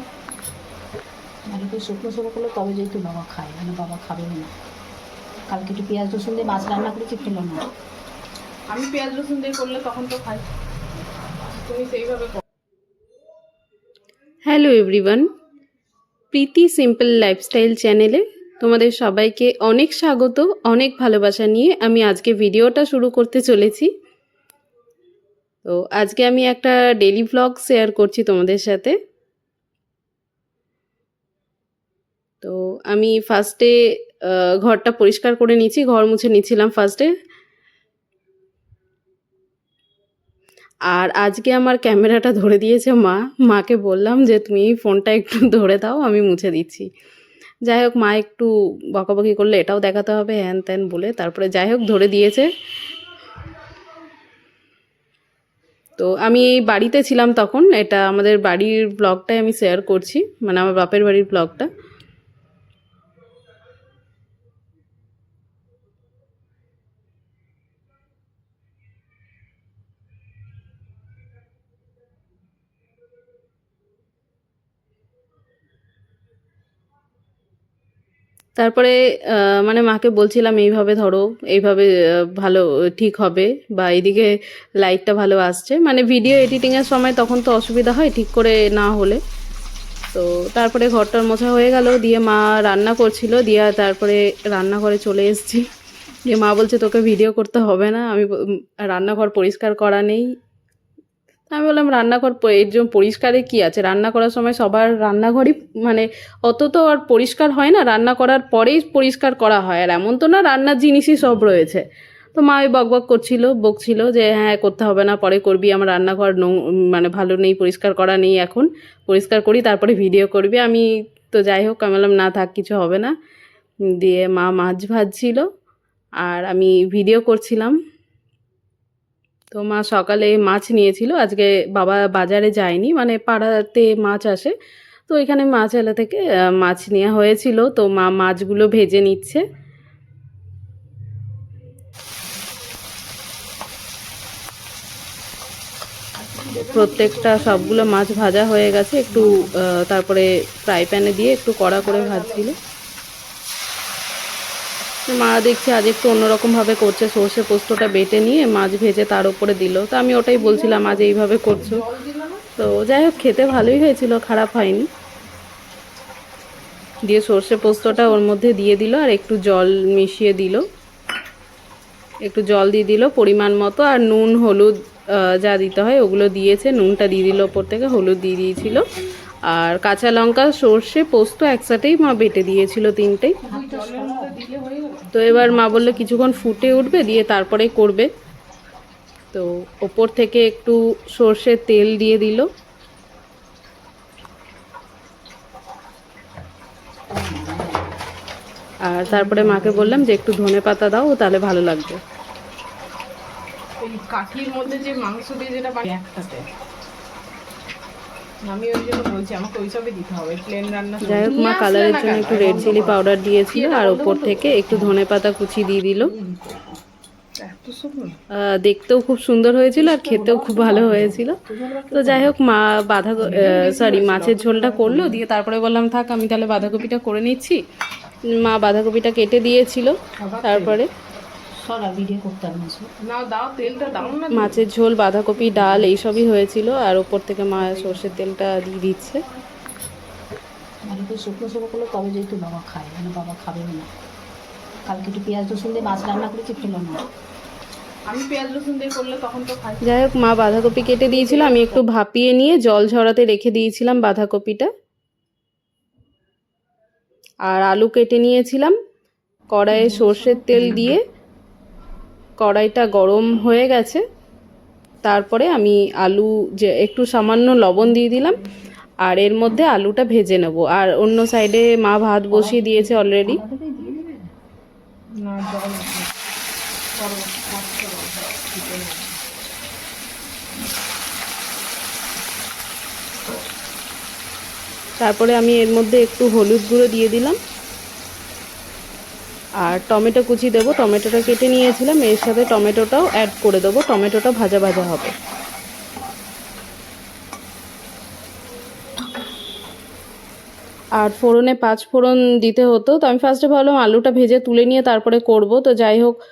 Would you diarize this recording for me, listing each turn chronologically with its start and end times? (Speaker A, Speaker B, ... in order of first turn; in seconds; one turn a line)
Speaker A: 1.5-4.5
Speaker A: 5.5-7.6
Speaker B: 8.7-10.4
Speaker B: 11.5-12.4
Speaker C: 14.4-15.2
Speaker C: 16.3-23.9
Speaker C: 25.6-28.9
Speaker C: 32.4-33.7
Speaker C: 34.2-37.1
Speaker C: 40.9-46.9
Speaker C: 47.7-52.5
Speaker C: 56.0-61.7
Speaker C: 78.6-81.8
Speaker C: 82.4-89.2
Speaker C: 90.1-95.6
Speaker C: 96.3-98.3
Speaker C: 98.9-100.2
Speaker C: 101.5-111.8
Speaker C: 112.3-123.1
Speaker C: 124.0-125.5
Speaker C: 126.2-127.8
Speaker C: 129.5-134.5
Speaker C: 135.1-139.4
Speaker B: 146.2-148.5
Speaker C: 146.7-152.6
Speaker B: 149.1-149.5
Speaker B: 151.8-152.6
Speaker C: 155.1-161.8
Speaker B: 160.3-162.5
Speaker C: 162.6-164.9
Speaker C: 167.0-170.6
Speaker C: 172.2-178.8
Speaker C: 179.5-183.4
Speaker A: 183.4-184.4
Speaker B: 183.5-185.2
Speaker C: 185.1-188.1
Speaker A: 185.3-186.6
Speaker C: 189.3-192.5
Speaker A: 197.1-197.9
Speaker C: 198.8-202.0
Speaker A: 199.1-200.1
Speaker B: 203.8-206.5
Speaker B: 208.4-214.9
Speaker C: 211.0-216.1
Speaker B: 216.0-216.6
Speaker B: 217.4-218.2
Speaker C: 218.3-221.4
Speaker A: 219.7-222.3
Speaker C: 221.9-227.6
Speaker B: 223.2-225.2
Speaker A: 223.2-223.5
Speaker C: 228.3-230.9
Speaker B: 230.2-230.8
Speaker A: 231.6-232.9
Speaker B: 233.0-234.7
Speaker C: 234.3-239.2
Speaker B: 237.6-238.0
Speaker A: 240.8-243.9
Speaker A: 244.8-247.0
Speaker B: 248.1-249.9
Speaker C: 249.8-254.7
Speaker B: 251.0-251.8
Speaker C: 257.4-258.7
Speaker C: 259.5-261.0
Speaker A: 259.7-260.9
Speaker B: 259.8-260.9
Speaker C: 262.4-264.0
Speaker C: 265.0-268.4
Speaker C: 269.0-273.4
Speaker A: 272.3-274.3
Speaker B: 275.2-276.1
Speaker B: 277.0-279.2
Speaker C: 285.0-287.4
Speaker C: 289.6-295.1
Speaker C: 301.0-306.2